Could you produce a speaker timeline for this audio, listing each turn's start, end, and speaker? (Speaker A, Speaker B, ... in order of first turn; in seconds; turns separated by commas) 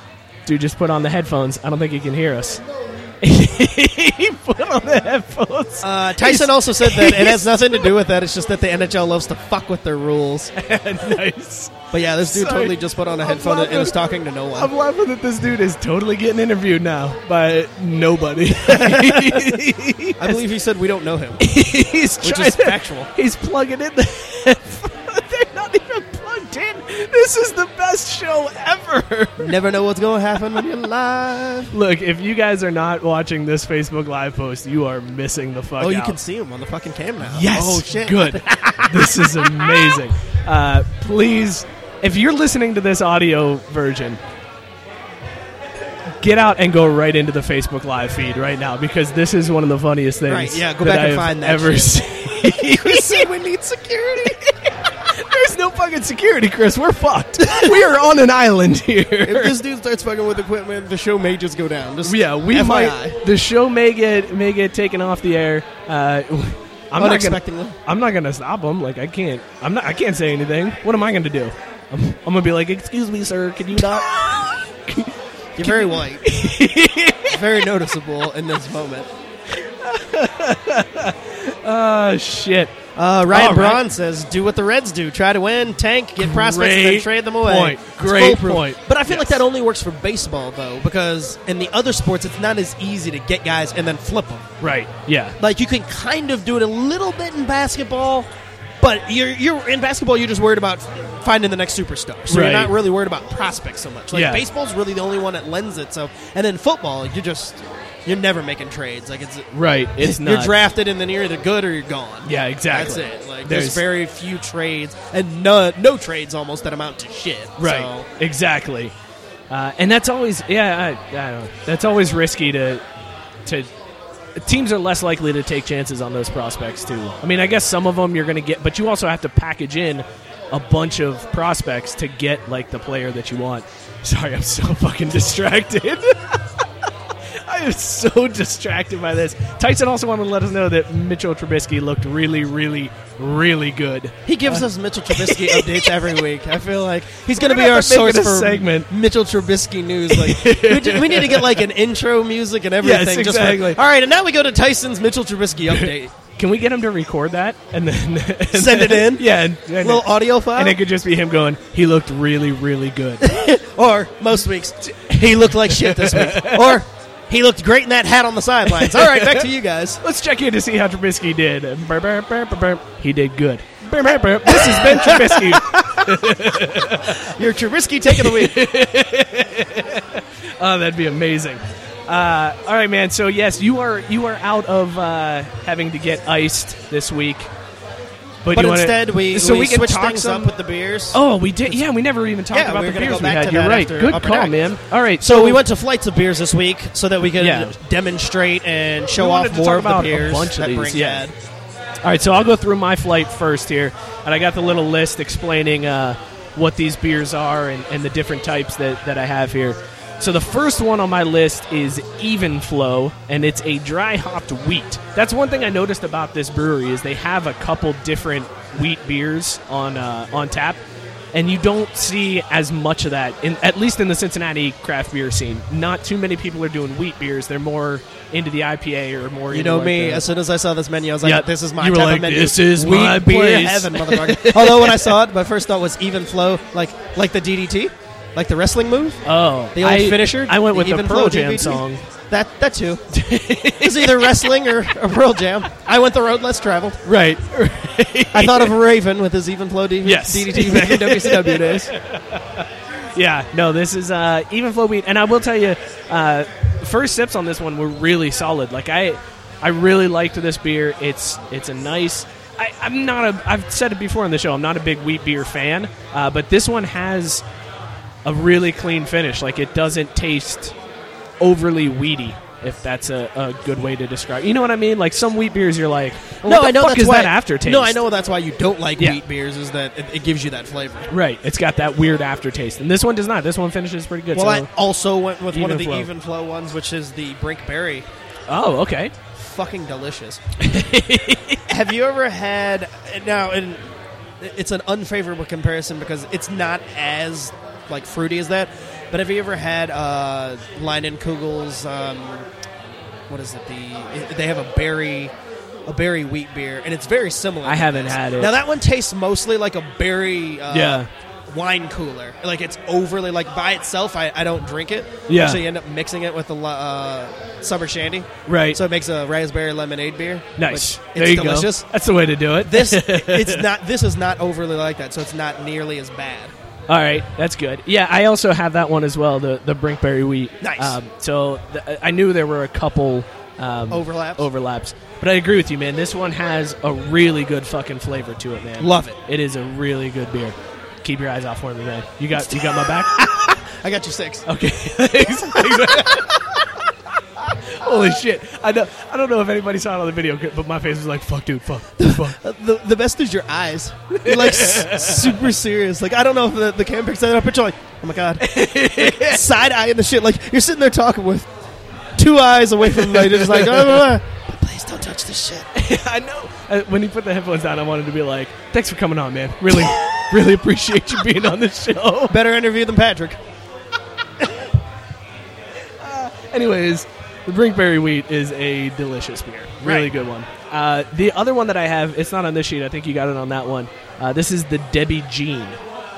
Speaker A: 0.5-2.6, Speaker A: 3.2-7.9, Speaker B: 5.8-10.5, Speaker A: 10.6-14.0, Speaker B: 11.9-14.7, Speaker A: 14.5-20.4, Speaker B: 18.6-19.6, Speaker B: 20.2-21.4, Speaker A: 21.4-29.5, Speaker B: 22.2-23.1, Speaker B: 29.4-31.7, Speaker A: 31.7-36.2, Speaker B: 35.8-40.0, Speaker A: 37.2-44.2, Speaker A: 46.2-53.2, Speaker B: 50.3-54.3, Speaker A: 54.2-59.5, Speaker B: 57.4-57.8, Speaker B: 59.2-63.2, Speaker A: 62.0-77.3, Speaker B: 67.0-67.8, Speaker B: 75.5-76.3, Speaker B: 77.3-79.1, Speaker A: 79.6-82.7, Speaker B: 83.0-94.5, Speaker A: 83.3-83.8, Speaker A: 86.2-89.4, Speaker A: 94.6-95.4, Speaker B: 95.4-98.3, Speaker B: 98.8-118.1, Speaker A: 102.3-102.7, Speaker A: 104.1-104.4, Speaker A: 109.5-110.5, Speaker A: 112.2-113.8, Speaker A: 117.6-118.9, Speaker A: 119.5-122.8, Speaker A: 124.3-136.7, Speaker A: 137.4-146.2, Speaker B: 144.2-156.1, Speaker A: 147.3-148.9, Speaker A: 150.1-151.6, Speaker A: 152.8-153.8, Speaker A: 155.7-163.2, Speaker B: 158.5-159.2, Speaker B: 159.8-160.8, Speaker B: 163.2-170.0, Speaker A: 164.9-166.8, Speaker A: 168.7-169.5, Speaker A: 170.0-177.3, Speaker B: 174.5-176.1, Speaker B: 177.3-178.6, Speaker A: 178.1-187.5, Speaker A: 188.4-190.5, Speaker B: 188.5-191.8, Speaker A: 191.1-195.6, Speaker B: 192.5-194.6, Speaker B: 195.2-201.3, Speaker A: 197.4-197.7, Speaker A: 199.2-201.2, Speaker A: 202.0-220.8, Speaker A: 221.3-230.3, Speaker B: 229.5-239.2, Speaker A: 231.2-235.2, Speaker A: 239.2-242.0, Speaker B: 239.8-243.0, Speaker A: 243.1-244.4, Speaker B: 243.8-247.0, Speaker A: 247.0-248.8, Speaker B: 248.3-251.9, Speaker A: 250.0-252.6, Speaker A: 253.1-267.4, Speaker A: 268.2-270.7, Speaker A: 271.4-278.0, Speaker B: 276.4-281.1, Speaker A: 281.1-284.7, Speaker B: 284.3-288.1, Speaker A: 285.5-286.1, Speaker A: 288.5-289.1, Speaker B: 289.4-290.4, Speaker A: 290.6-291.6, Speaker B: 291.7-293.8, Speaker B: 294.4-302.4, Speaker B: 303.3-305.3, Speaker B: 305.9-321.9, Speaker A: 307.6-308.5, Speaker A: 310.7-311.1, Speaker A: 315.3-315.6, Speaker A: 318.4-318.8, Speaker A: 320.6-323.6, Speaker B: 322.6-326.5, Speaker A: 326.9-343.6, Speaker B: 330.6-331.0, Speaker B: 333.9-334.4, Speaker B: 338.8-339.2, Speaker B: 342.4-344.5, Speaker A: 344.5-346.6, Speaker B: 345.3-346.3, Speaker A: 347.7-352.3, Speaker B: 352.0-361.5, Speaker A: 354.1-355.5, Speaker A: 358.4-359.4, Speaker B: 362.1-365.7, Speaker A: 362.9-364.1, Speaker A: 365.7-372.3, Speaker B: 369.7-370.1, Speaker B: 372.3-373.4, Speaker A: 376.0-385.8, Speaker B: 379.8-380.1